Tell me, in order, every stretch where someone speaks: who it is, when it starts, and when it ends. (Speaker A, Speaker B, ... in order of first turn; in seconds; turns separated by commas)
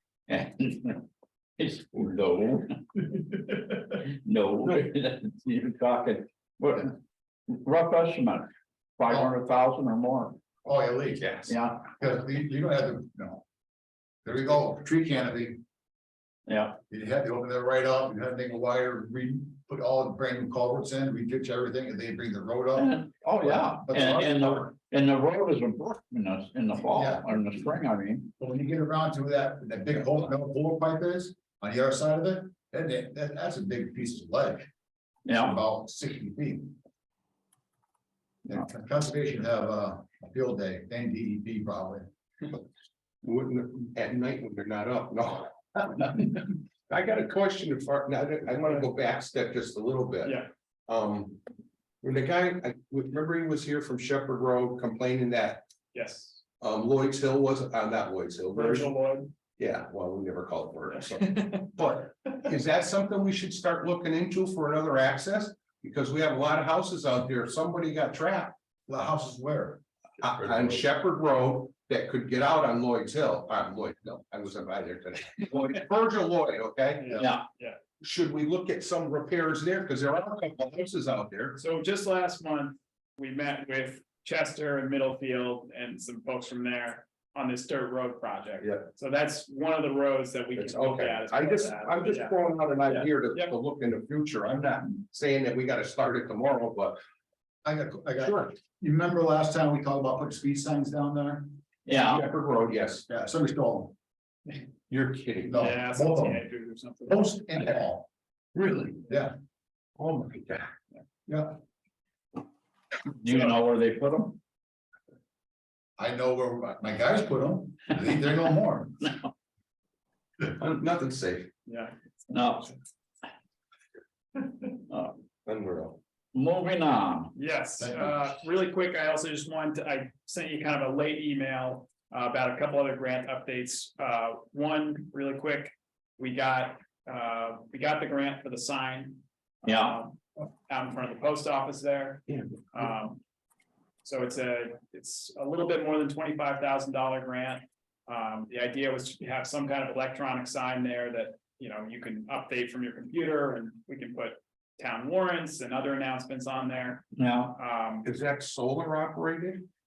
Speaker A: 0.3-1.0, Speaker A: 1.6-2.8, Speaker A: 4.0-6.9, Speaker A: 7.5-10.4, Speaker B: 10.6-13.4, Speaker C: 11.2-11.5, Speaker A: 11.5-11.9, Speaker B: 14.2-15.6, Speaker A: 16.5-16.8, Speaker B: 16.9-24.7, Speaker A: 22.8-28.3, Speaker B: 26.9-27.5, Speaker B: 28.4-34.7, Speaker A: 35.2-35.6, Speaker B: 35.3-36.7, Speaker B: 38.5-42.1, Speaker C: 43.2-51.4, Speaker D: 50.2-50.5, Speaker C: 52.0-55.6, Speaker D: 55.9-56.4, Speaker C: 56.6-58.9, Speaker D: 58.5-59.3, Speaker C: 59.6-68.5, Speaker D: 61.0-61.7, Speaker B: 68.9-69.8, Speaker C: 70.2-77.3, Speaker D: 77.0-77.8, Speaker A: 77.2-77.4, Speaker C: 78.0-81.6, Speaker D: 81.5-93.5, Speaker C: 90.5-97.0, Speaker B: 97.6-101.5, Speaker C: 98.2-98.5, Speaker A: 101.9-102.2, Speaker C: 101.9-103.0, Speaker B: 103.1-103.9, Speaker C: 104.9-105.6, Speaker B: 105.4-106.4, Speaker D: 105.5-107.3, Speaker B: 107.1-109.3, Speaker C: 110.0-110.7, Speaker B: 111.3-111.6, Speaker A: 113.1-114.4, Speaker B: 116.0-119.2, Speaker C: 120.6-121.5, Speaker D: 121.7-121.9, Speaker A: 122.3-122.7, Speaker A: 124.9-125.2, Speaker C: 125.5-126.0, Speaker A: 126.3-127.3, Speaker D: 127.3-143.2, Speaker B: 127.8-128.2, Speaker A: 139.6-140.0, Speaker D: 144.0-158.1, Speaker A: 157.2-157.6, Speaker C: 158.0-159.7